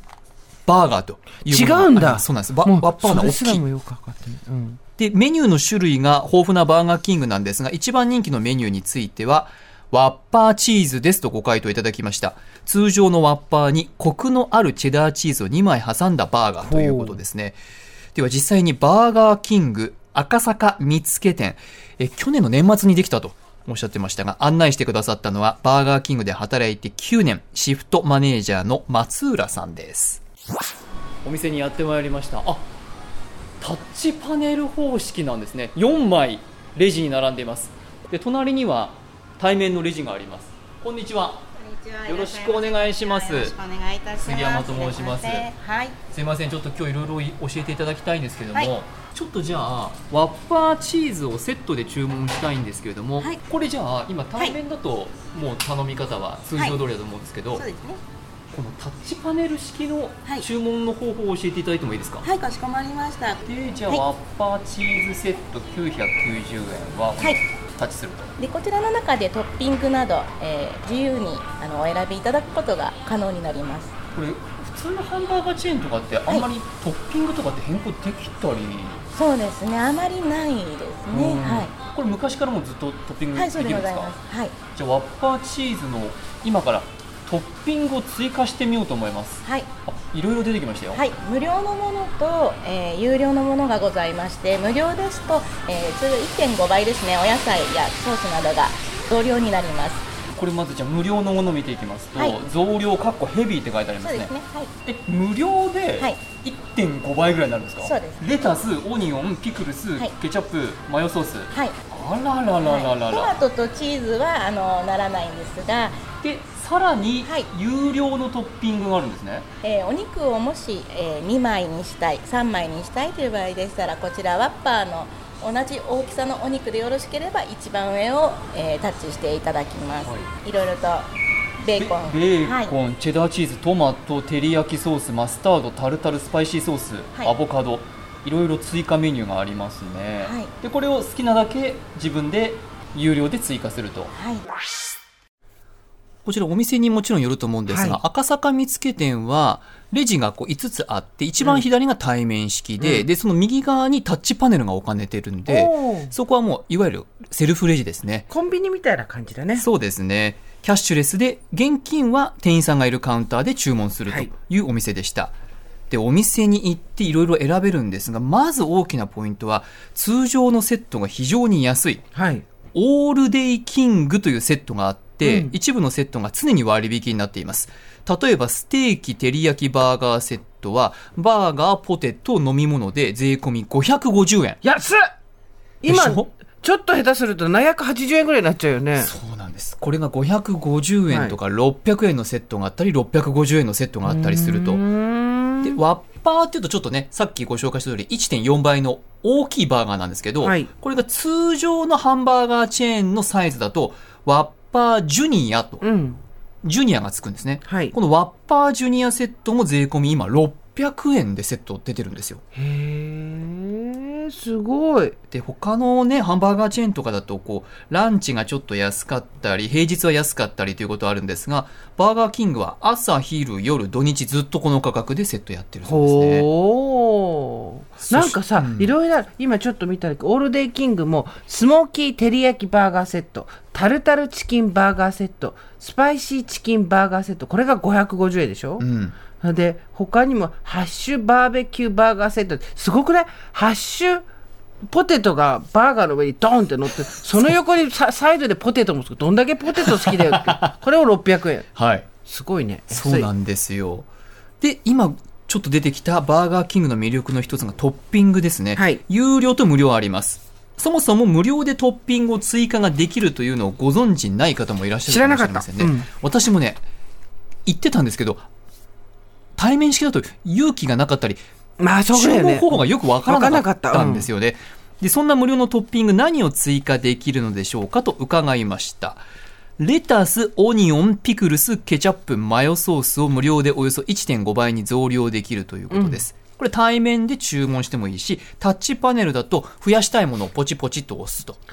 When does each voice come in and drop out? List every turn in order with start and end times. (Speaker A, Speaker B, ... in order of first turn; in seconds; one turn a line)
Speaker A: 0.7-3.6
Speaker B: 1.5-4.8
Speaker A: 5.0-17.6
Speaker B: 16.6-17.2
Speaker A: 18.1-30.2
Speaker A: 31.2-32.7
Speaker A: 33.6-41.5
Speaker C: 41.7-46.0
Speaker A: 42.1-43.6
Speaker A: 44.2-45.5
Speaker A: 46.1-57.7
Speaker C: 56.5-56.8
Speaker C: 57.5-58.0
Speaker A: 58.5-62.3
Speaker C: 62.2-64.0
Speaker A: 63.4-68.3
Speaker C: 68.4-73.9
Speaker A: 74.2-79.0
Speaker C: 79.1-81.7
Speaker A: 81.1-84.2
Speaker C: 83.3-84.6
Speaker A: 84.7-91.0
Speaker C: 89.5-89.7
Speaker C: 90.9-100.1
Speaker A: 100.3-104.3
Speaker C: 104.0-104.7
Speaker A: 104.8-113.4
Speaker C: 107.8-108.3
Speaker C: 111.5-111.8
Speaker C: 112.6-116.1
Speaker A: 116.2-119.5
Speaker C: 117.2-117.5
Speaker C: 119.6-131.1
Speaker A: 130.0-130.3
Speaker C: 131.6-132.8
Speaker A: 131.8-144.1
Speaker C: 140.2-140.5
Speaker C: 144.1-144.5
Speaker A: 146.2-158.3
Speaker B: 147.7-148.0
Speaker B: 151.4-151.7
Speaker B: 152.8-153.1
Speaker B: 155.5-156.1
Speaker B: 158.3-159.7
Speaker A: 159.6-165.3
Speaker A: 165.9-172.0
Speaker B: 172.1-172.4
Speaker A: 172.7-184.6
Speaker B: 175.2-175.6
Speaker B: 184.6-185.1
Speaker B: 185.8-189.1
Speaker A: 185.9-186.3
Speaker A: 189.0-194.8
Speaker B: 191.1-191.4
Speaker B: 194.1-195.8
Speaker A: 195.6-205.8
Speaker B: 200.4-200.7
Speaker B: 205.8-206.2
Speaker A: 206.6-212.4
Speaker B: 207.7-207.9
Speaker B: 212.6-215.2
Speaker A: 215.3-226.5
Speaker B: 225.8-244.2
Speaker A: 228.0-228.9
Speaker A: 238.8-239.2
Speaker B: 244.9-251.7
Speaker A: 249.8-250.8
Speaker A: 251.8-252.1
Speaker B: 252.2-253.3
Speaker A: 252.9-254.1
Speaker A: 254.6-266.8
Speaker B: 258.8-259.0
Speaker B: 265.1-266.1
Speaker A: 267.7-268.5
Speaker A: 269.6-271.4
Speaker B: 271.8-274.3
Speaker A: 272.1-279.2
Speaker A: 279.8-291.6
Speaker B: 285.9-286.2